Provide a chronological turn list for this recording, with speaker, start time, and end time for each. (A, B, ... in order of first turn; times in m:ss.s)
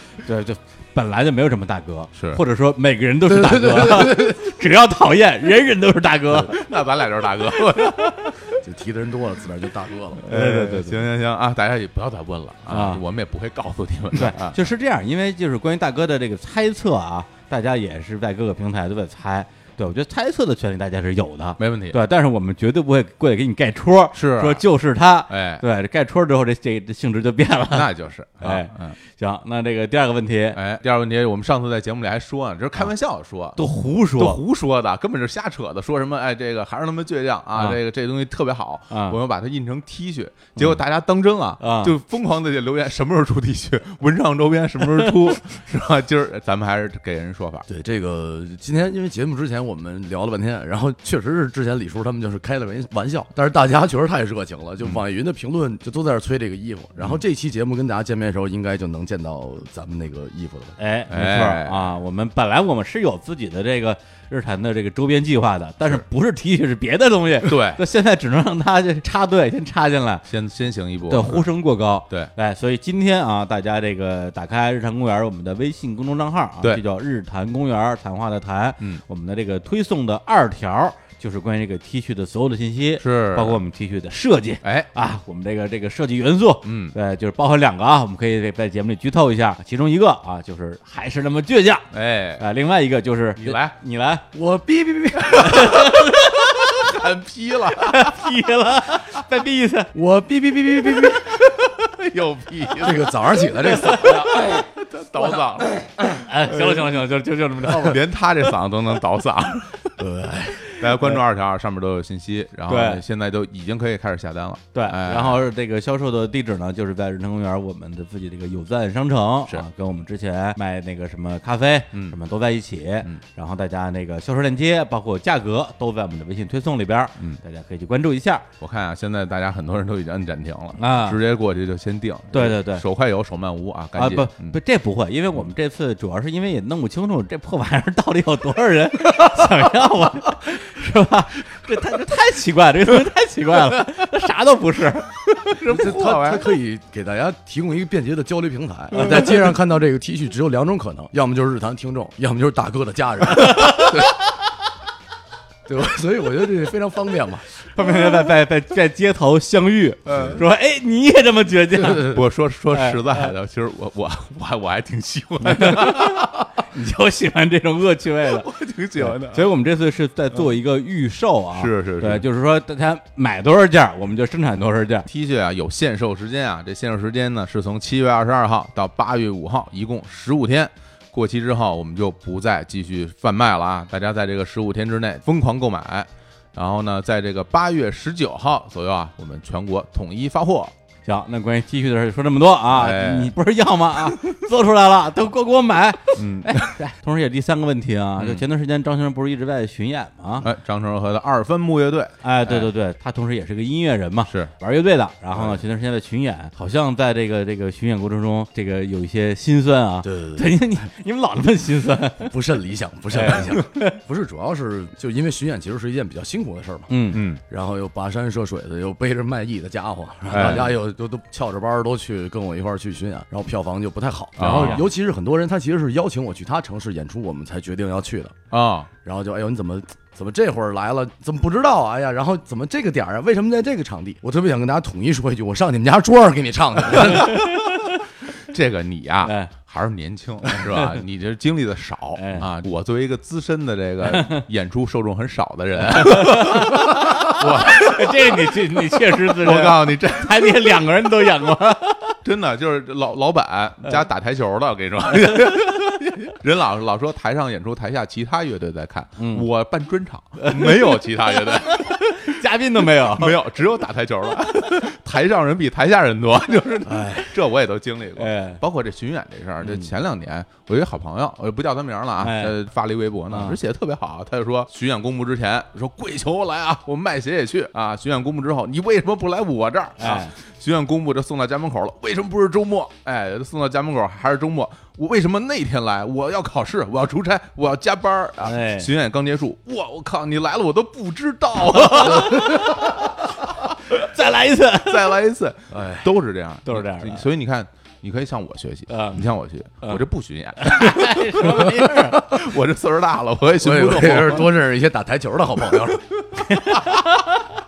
0:00.2-0:06.6 A
0:02.2-0:02.4 B
0:03.3-0:04.4 C
0:06.3-0:08.5 B
0:08.6-0:10.2 C
0:10.2-0:14.6 B
0:10.3-0:11.1 A
0:12.7-0:13.0 A
0:14.1-0:27.9 A
0:21.6-0:22.0 B
0:24.1-0:24.6 B
0:25.3-0:25.6 B
0:27.7-0:29.0 B
0:28.4-0:30.6 A
0:30.5-0:47.7 B
0:33.6-0:34.4 A
0:38.9-0:39.2 A
0:41.6-0:41.9 A
0:47.7-1:00.8 C
1:00.8-1:10.2 A
1:01.1-1:01.9 B
1:07.4-1:07.8 B
1:10.3-1:11.5 B
1:11.1-1:34.3 A
1:23.0-1:23.6 B
1:24.6-1:24.9 B
1:26.6-1:27.0 B
1:31.9-1:32.4 B
1:33.4-1:33.8 B
1:34.3-1:35.8 C
1:35.2-1:35.8 B
1:35.4-1:36.8 A
1:36.7-1:38.3 B
1:37.8-1:39.9 A
1:39.9-1:41.3 C
1:40.9-1:45.8 B
1:42.8-1:44.6 C
1:43.8-1:44.4 A
1:46.1-1:48.0 A
1:46.5-1:46.9 B
1:47.6-1:50.0 B
1:50.0-1:50.6 C
1:50.6-1:55.4 B
1:52.7-1:53.0 A
1:54.7-2:08.5 A
2:08.6-2:14.6 B
2:10.8-2:11.2 A
2:12.3-2:12.8 A
2:14.0-2:25.1 A
2:25.4-2:26.5 B
2:25.6-2:34.0 C
2:33.3-2:34.1 A
2:35.7-2:37.5 C
2:37.7-2:43.3 A
2:40.1-2:40.4 B
2:41.9-2:46.5 B
2:45.5-2:55.1 A
2:48.3-2:49.5 B
2:51.5-2:52.2 B
2:55.1-3:10.7 B
3:11.0-3:20.5 A
3:12.7-3:13.3 B
3:16.2-3:16.8 B
3:18.2-3:18.4 B
3:20.4-3:22.7 B
3:22.2-3:32.3 A
3:30.0-3:30.6 C
3:32.2-3:48.4 C
3:33.1-3:34.0 A
3:36.9-3:37.2 A
3:37.1-3:37.4 B
3:40.3-3:40.7 B
3:44.4-3:44.8 B
3:44.4-3:44.8 A
3:48.5-3:48.9 B
3:49.0-3:57.5 C
3:57.1-3:58.0 A
3:58.4-4:10.8 B
3:59.2-3:59.5 A
4:02.2-4:02.5 A
4:04.0-4:04.4 A
4:05.9-4:12.2 A
4:12.2-4:22.4 B
4:19.2-4:19.5 A
4:20.4-4:23.4 A
4:23.0-4:53.1 B
4:26.9-4:27.3 C
4:28.2-4:28.6 A
4:29.6-4:29.9 A
4:32.2-4:32.6 A
4:33.3-4:33.6 A
4:40.0-4:40.3 A
4:48.4-4:48.9 A
4:52.2-4:52.6 A
4:54.0-4:55.2 A
4:54.8-5:04.6 B
4:56.6-4:57.2 A
4:58.9-4:59.2 A
5:00.6-5:02.4 A
5:03.6-5:06.0 C
5:05.7-5:07.1 B
5:06.4-5:07.4 A